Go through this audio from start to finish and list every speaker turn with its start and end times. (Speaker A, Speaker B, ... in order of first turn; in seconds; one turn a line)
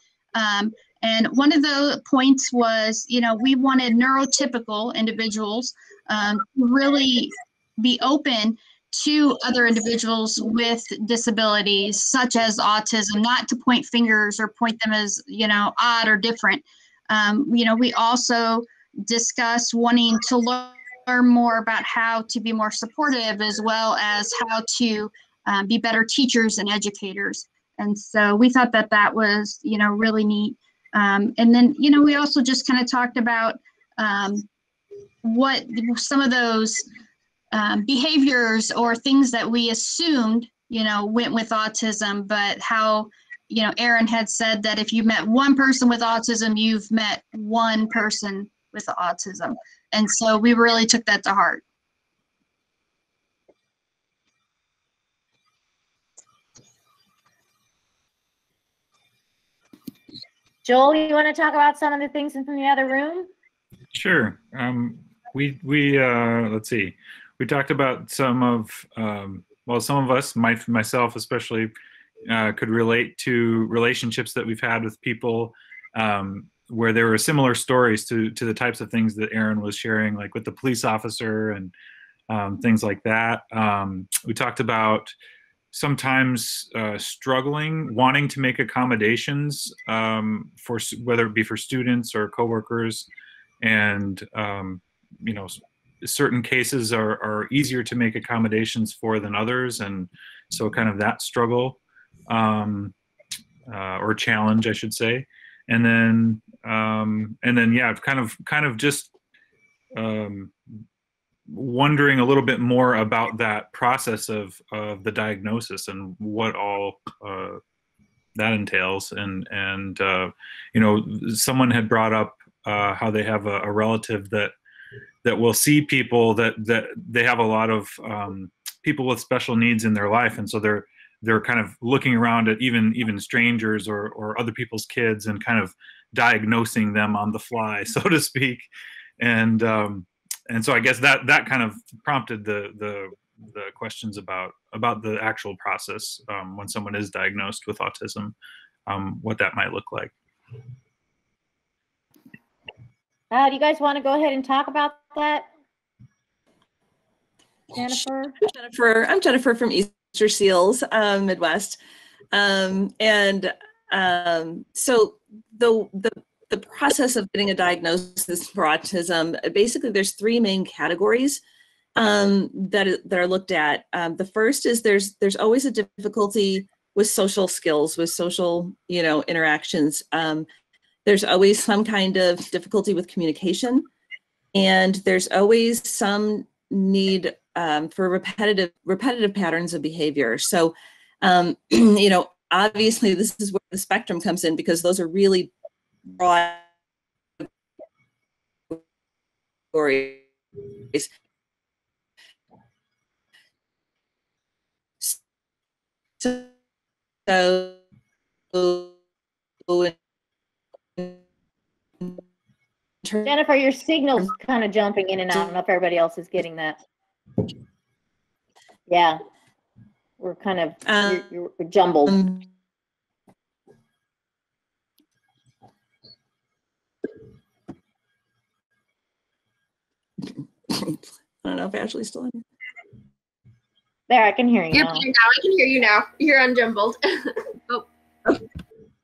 Speaker A: 0.3-34.5
Speaker A: 35.2-36.9
Speaker A: 37.5-51.6
Speaker B: 60.6-63.3
Speaker C: 63.9-71.7
Speaker C: 72.3-81.7
Speaker C: 82.3-85.2
Speaker C: 85.7-93.1
Speaker C: 93.6-103.0
Speaker C: 103.7-109.1
Speaker C: 110.0-110.5
Speaker C: 111.5-117.6
Speaker C: 118.3-124.5
Speaker C: 125.2-138.7
Speaker C: 139.2-148.3
Speaker C: 148.9-150.1
Speaker B: 153.3-155.5
Speaker B: 157.8-158.3
Speaker D: 158.4-161.8
Speaker D: 162.3-171.4
Speaker D: 171.9-180.5
Speaker D: 181.1-183.9
Speaker D: 184.5-195.5
Speaker D: 196.1-196.6
Speaker D: 199.7-201.1
Speaker D: 206.2-206.5
Speaker D: 207.3-207.8
Speaker D: 208.5-208.9
Speaker D: 209.7-209.9
Speaker B: 213.2-216.8
Speaker B: 218.9-219.2
Speaker B: 220.2-222.2
Speaker D: 220.9-221.2
Speaker D: 222.1-222.4
Speaker D: 230.7-232.4
Speaker B: 234.1-235.1
Speaker E: 234.7-237.9